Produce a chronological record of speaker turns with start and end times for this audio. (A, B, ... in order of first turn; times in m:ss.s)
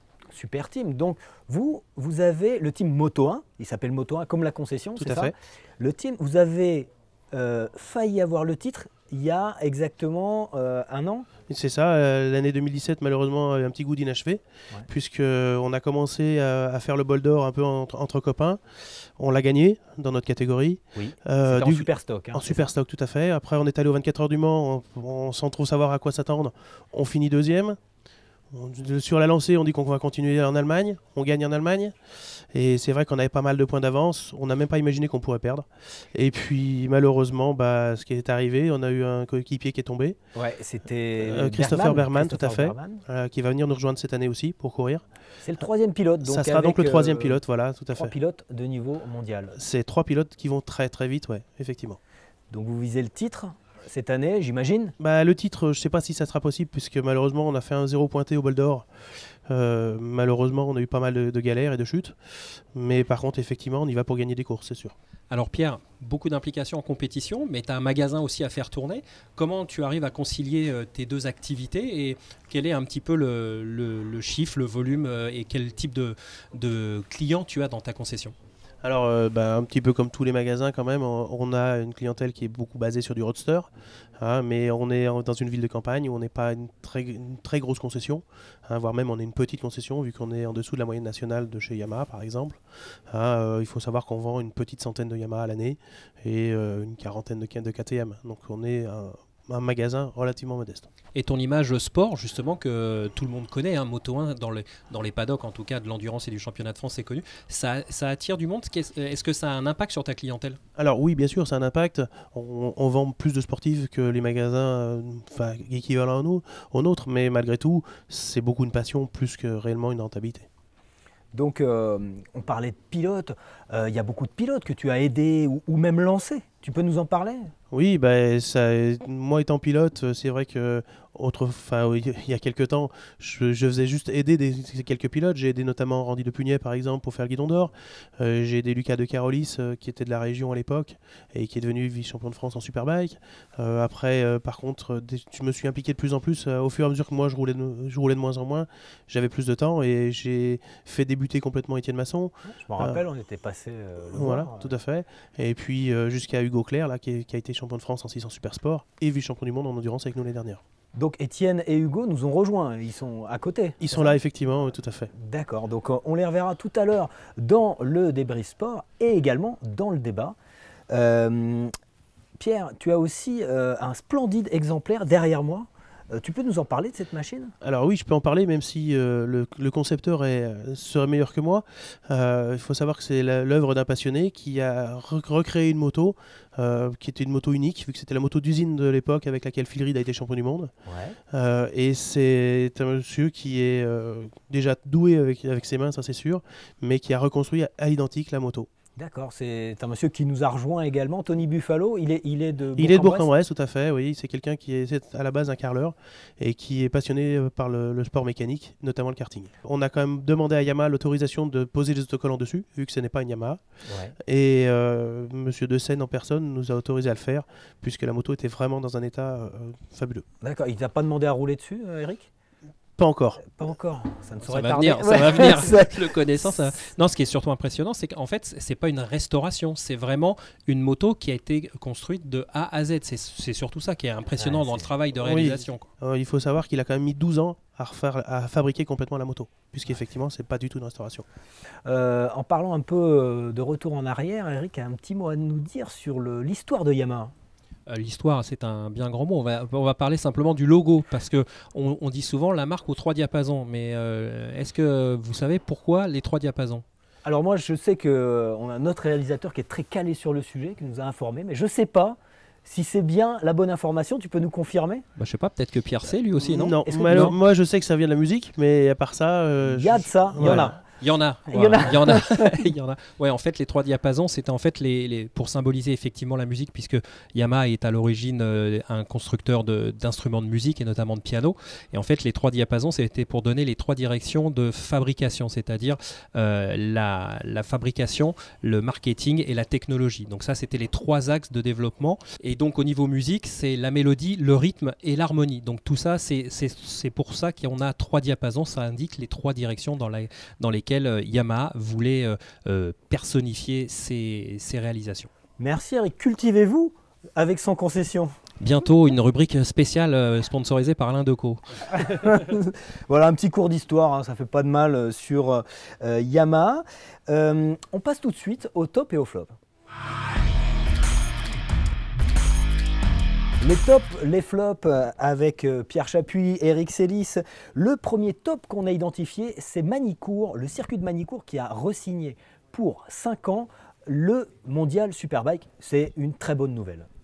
0:00.3-0:11.3 A
0:05.0-0:05.3 B
0:11.5-0:27.8 B
0:20.9-0:22.7 A
0:28.5-0:32.0 B
0:32.5-0:40.2 B
0:40.3-0:43.0 A
0:41.2-0:45.0 B
0:45.4-0:47.4 A
0:46.2-0:48.1 B
0:47.9-0:49.6 A
0:49.6-0:52.0 B
0:52.5-0:54.9 A
0:55.0-0:58.9 B
0:59.5-1:05.0 B
1:05.3-1:18.3 C
1:18.8-1:40.9 B
1:41.1-1:50.6 C
1:50.8-2:00.5 B
2:01.3-2:07.5 A
2:07.7-2:33.0 B
2:32.5-2:34.7 A
2:34.1-2:40.6 B
2:40.9-2:44.2 A
2:43.8-2:45.1 B
2:45.1-2:50.3 A
2:50.9-2:51.7 A
2:52.4-2:57.5 A
2:57.6-3:10.7 B
3:10.8-3:11.2 A
3:11.3-3:18.7 B
3:19.0-3:23.3 A
3:22.8-3:33.7 B
3:33.9-3:34.1 A
3:34.2-3:40.2 B
3:40.4-3:42.3 A
3:43.0-3:43.4 B
3:43.4-3:46.7 A
3:44.4-3:55.8 C
3:54.4-3:54.9 A
3:55.2-4:01.2 B
4:01.8-4:07.3 A
4:07.9-4:16.8 C
4:17.2-4:25.0 A
4:25.2-4:27.3 C
4:26.4-4:30.8 B
4:26.8-4:27.4 A
4:29.6-4:30.8 A
4:30.4-5:05.3 C
4:31.5-4:32.5 A
5:05.6-5:08.3 A
5:08.6-5:12.1 C
5:12.0-5:19.5 A
5:23.6-5:37.1 A